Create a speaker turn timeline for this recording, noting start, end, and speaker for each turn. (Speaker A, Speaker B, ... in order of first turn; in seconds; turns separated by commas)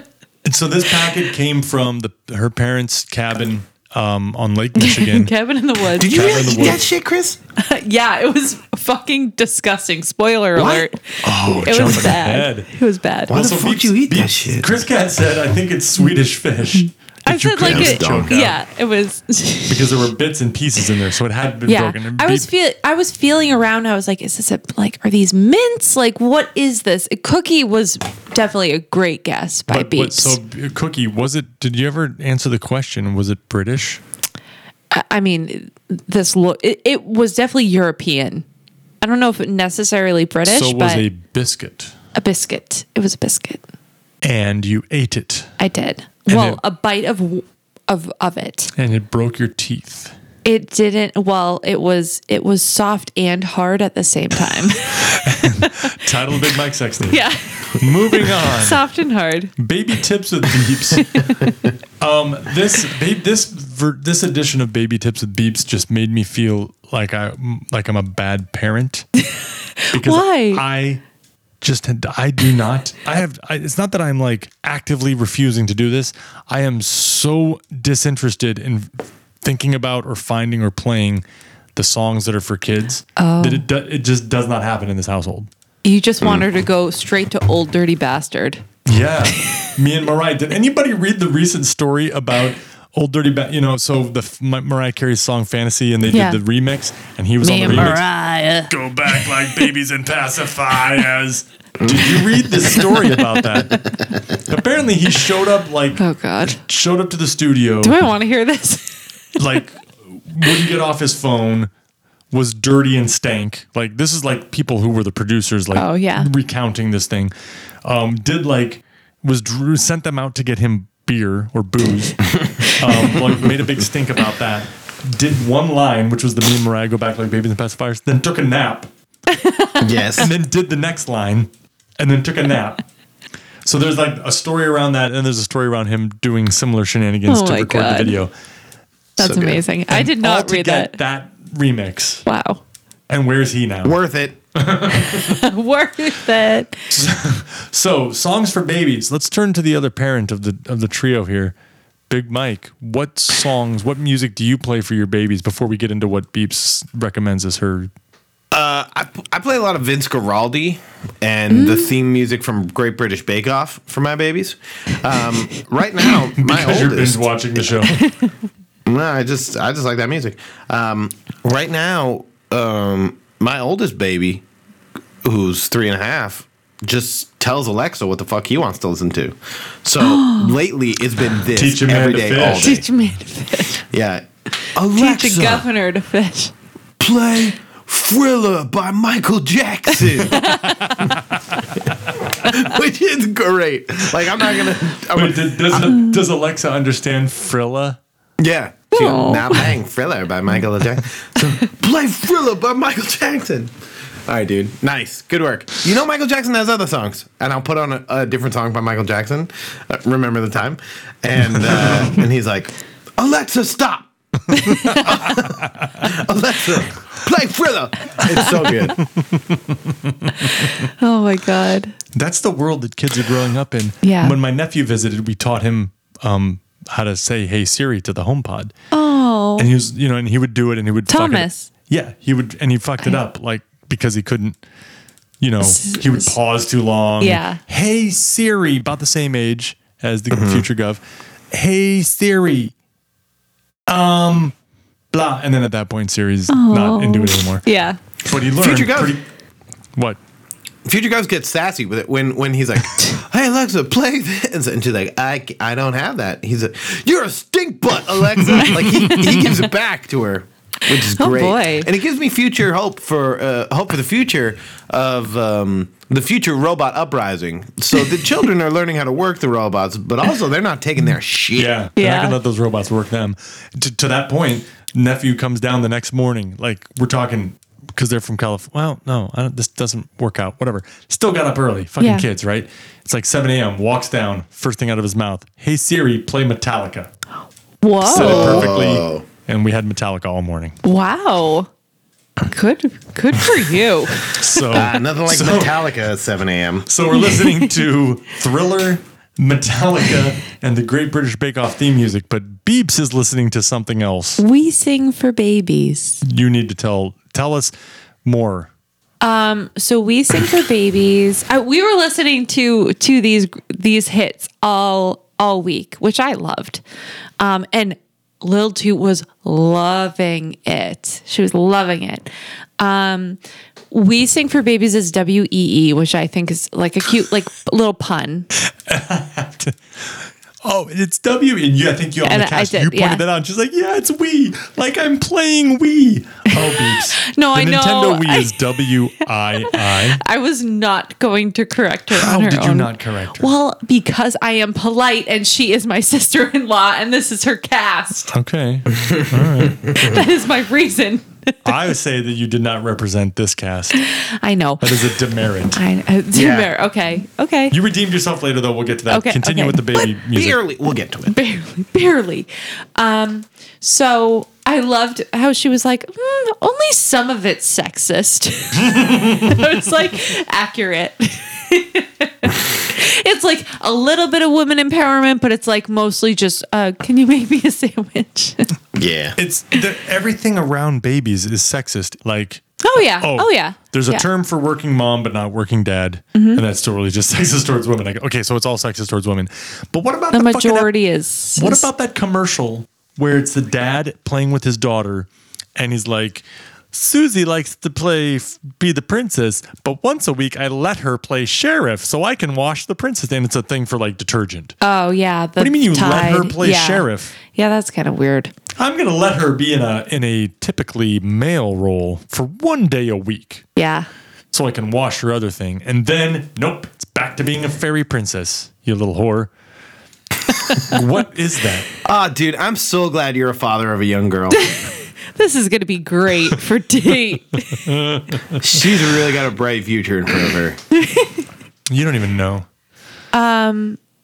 Speaker A: 0.4-5.3, Speaker B: 4.8-6.8, Speaker C: 6.0-7.4, Speaker A: 6.0-6.8, Speaker B: 7.6-13.3, Speaker C: 10.6-12.0, Speaker A: 11.3-12.7, Speaker A: 13.3-18.6, Speaker C: 13.3-14.8, Speaker B: 17.2-19.9, Speaker C: 17.6-18.3, Speaker A: 19.7-22.5, Speaker B: 21.7-30.4, Speaker A: 29.7-34.0, Speaker B: 34.9-38.4, Speaker B: 39.0-41.0, Speaker A: 40.5-41.9, Speaker B: 42.1-43.6, Speaker A: 44.2-45.5, Speaker B: 45.6-48.7, Speaker A: 46.3-46.6, Speaker A: 48.8-50.1, Speaker B: 50.4-55.9, Speaker A: 55.0-57.2, Speaker B: 57.1-59.5, Speaker A: 57.7-58.8, Speaker A: 59.6-61.4, Speaker B: 61.0-61.5, Speaker A: 62.0-69.1, Speaker B: 69.8-70.6, Speaker A: 69.9-71.0, Speaker A: 71.6-78.9, Speaker A: 79.4-81.2, Speaker A: 81.7-85.5, Speaker B: 83.2-83.6, Speaker B: 85.8-88.6, Speaker C: 86.2-86.5, Speaker A: 88.8-98.1, Speaker B: 96.1-96.4, Speaker B: 97.4-98.7, Speaker A: 98.7-103.8, Speaker C: 101.8-102.1, Speaker A: 104.5-108.1, Speaker B: 106.0-106.6, Speaker B: 107.8-109.0, Speaker A: 109.4-111.7, Speaker A: 112.3-117.3, Speaker B: 115.7-116.3, Speaker A: 117.8-128.9, Speaker B: 129.3-130.2, Speaker C: 129.8-130.3, Speaker A: 130.2-132.8, Speaker A: 133.6-138.3, Speaker B: 137.2-138.2, Speaker C: 139.2-139.6, Speaker B: 139.2-141.0, Speaker A: 139.9-142.2, Speaker B: 142.2-142.6, Speaker A: 143.1-143.9, Speaker C: 143.8-144.4, Speaker A: 144.5-145.4, Speaker B: 145.0-146.9, Speaker A: 146.9-151.5, Speaker A: 152.1-157.9, Speaker C: 158.5-167.6, Speaker B: 161.5-161.9, Speaker A: 166.3-167.9, Speaker B: 167.9-168.3, Speaker C: 168.8-174.4, Speaker C: 175.2-182.8, Speaker B: 180.0-180.5, Speaker A: 181.5-182.8, Speaker B: 182.5-183.8, Speaker C: 183.8-185.7, Speaker B: 184.9-186.5, Speaker C: 187.0-190.4, Speaker B: 190.1-191.0, Speaker C: 192.3-196.0, Speaker A: 195.1-198.0, Speaker C: 198.4-203.7, Speaker B: 198.9-199.7, Speaker C: 204.2-219.0, Speaker A: 214.6-215.9, Speaker B: 220.3-221.9, Speaker A: 222.1-228.7, Speaker B: 224.0-224.4, Speaker B: 228.9-229.7, Speaker A: 229.6-234.6, Speaker B: 231.1-231.7, Speaker A: 235.4-241.0, Speaker B: 235.6-236.3, Speaker B: 237.2-237.6, Speaker C: 240.3-240.6, Speaker A: 241.5-242.7, Speaker A: 243.9-244.5, Speaker A: 245.1-247.6, Speaker B: 246.5-248.0, Speaker A: 248.2-249.2, Speaker C: 248.6-249.1, Speaker C: 250.8-271.7, Speaker A: 258.4-259.3, Speaker B: 260.9-261.9, Speaker A: 271.6-287.1, Speaker B: 272.0-272.4, Speaker B: 282.0-282.2, Speaker B: 287.8-288.7, Speaker A: 288.0-290.8, Speaker C: 288.1-289.2, Speaker B: 290.8-291.7, Speaker B: 292.5-294.3, Speaker A: 294.3-295.8, Speaker C: 294.7-296.9, Speaker A: 296.9-304.4, Speaker B: 297.1-297.7, Speaker B: 304.4-306.2, Speaker A: 306.2-307.7, Speaker A: 308.2-308.7, Speaker B: 309.2-316.8, Speaker B: 317.4-323.4, Speaker B: 323.9-328.5, Speaker A: 328.9-340.2, Speaker B: 332.2-333.2, Speaker B: 336.5-338.8, Speaker B: 339.6-348.3, Speaker A: 342.1-343.5, Speaker A: 348.3-349.9, Speaker C: 348.9-350.2, Speaker B: 349.9-351.6, Speaker A: 351.6-354.0, Speaker B: 353.9-355.1, Speaker A: 354.8-355.8, Speaker B: 355.7-357.7, Speaker C: 356.3-356.7, Speaker A: 357.7-360.6, Speaker B: 359.1-360.1, Speaker C: 360.2-361.3, Speaker B: 361.3-378.7, Speaker C: 378.9-379.4, Speaker A: 379.4-390.9, Speaker B: 382.8-384.2, Speaker B: 386.3-386.6, Speaker B: 390.3-391.9, Speaker A: 391.5-404.8, Speaker B: 404.8-408.5, Speaker A: 405.6-407.3, Speaker A: 408.8-413.6, Speaker B: 413.8-414.1, Speaker A: 414.5-419.5, Speaker B: 420.7-421.0, Speaker A: 420.8-421.9, Speaker C: 422.0-424.6, Speaker B: 424.5-427.9, Speaker A: 427.8-428.8, Speaker C: 428.6-430.8, Speaker B: 430.9-431.4, Speaker A: 431.9-432.7, Speaker B: 433.3-434.0